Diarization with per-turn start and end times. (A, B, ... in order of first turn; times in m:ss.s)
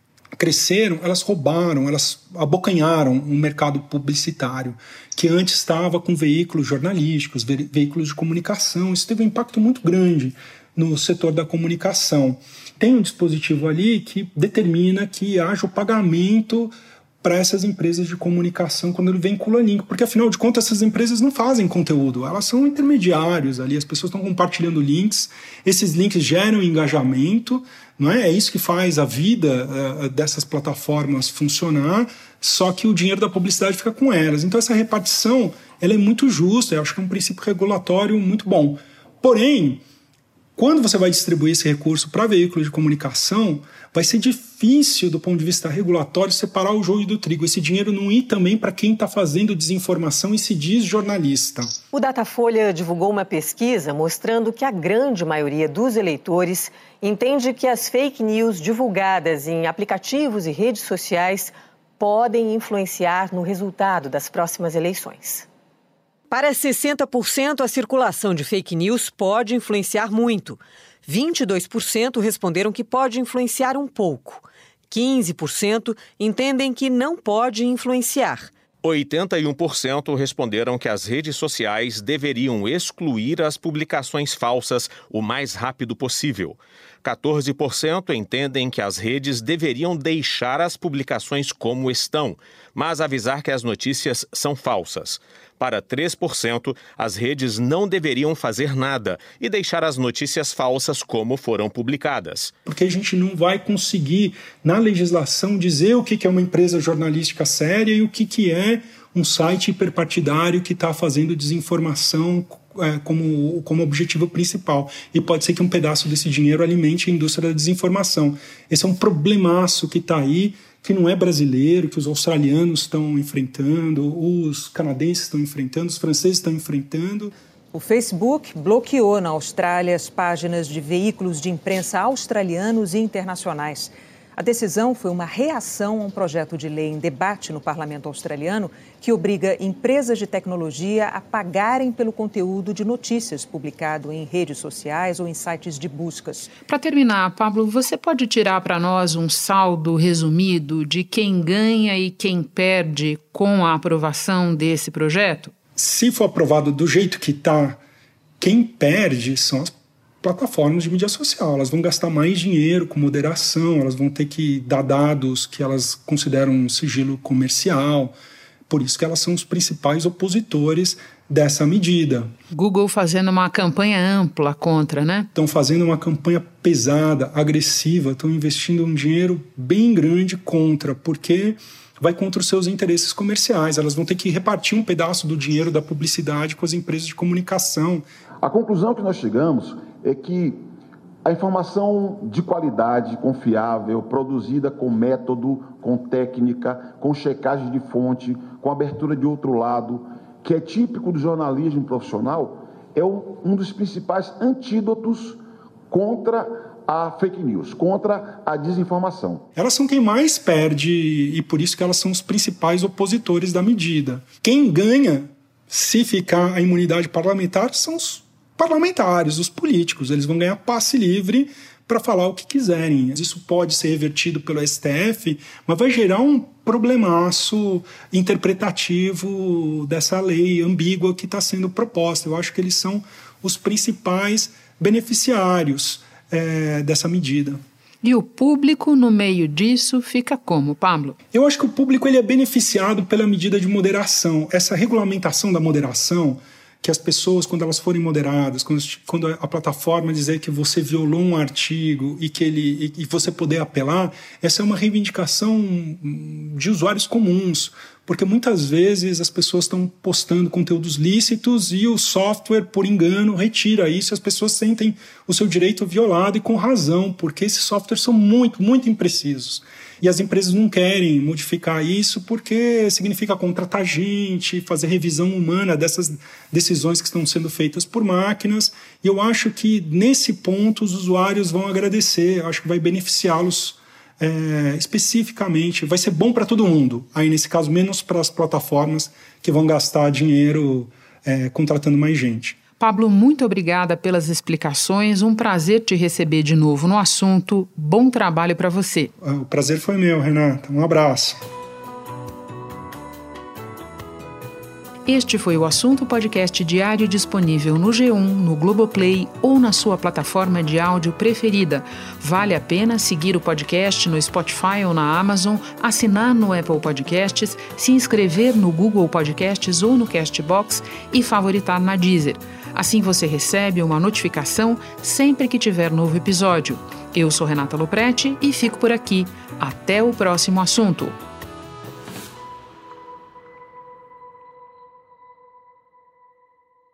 0:00.4-0:39.8 A
0:40.6-0:51.8 A
0:51.9-1:05.5 B
1:06.3-1:18.5 B
1:18.8-1:42.5 C
1:42.6-2:07.3 A
2:07.7-2:26.5 B
2:26.6-2:35.5 D
2:35.8-2:37.8 A
2:38.4-2:48.1 A
2:48.7-2:52.3 A
2:52.5-2:55.3 D
2:55.3-3:08.0 A
3:08.4-3:10.6 E
3:11.2-3:29.4 E
3:29.5-3:57.6 A
3:58.0-4:01.2 D
4:01.3-4:52.6 A
4:52.8-4:59.1 D
4:59.2-5:01.4 A
5:05.1-5:31.2 D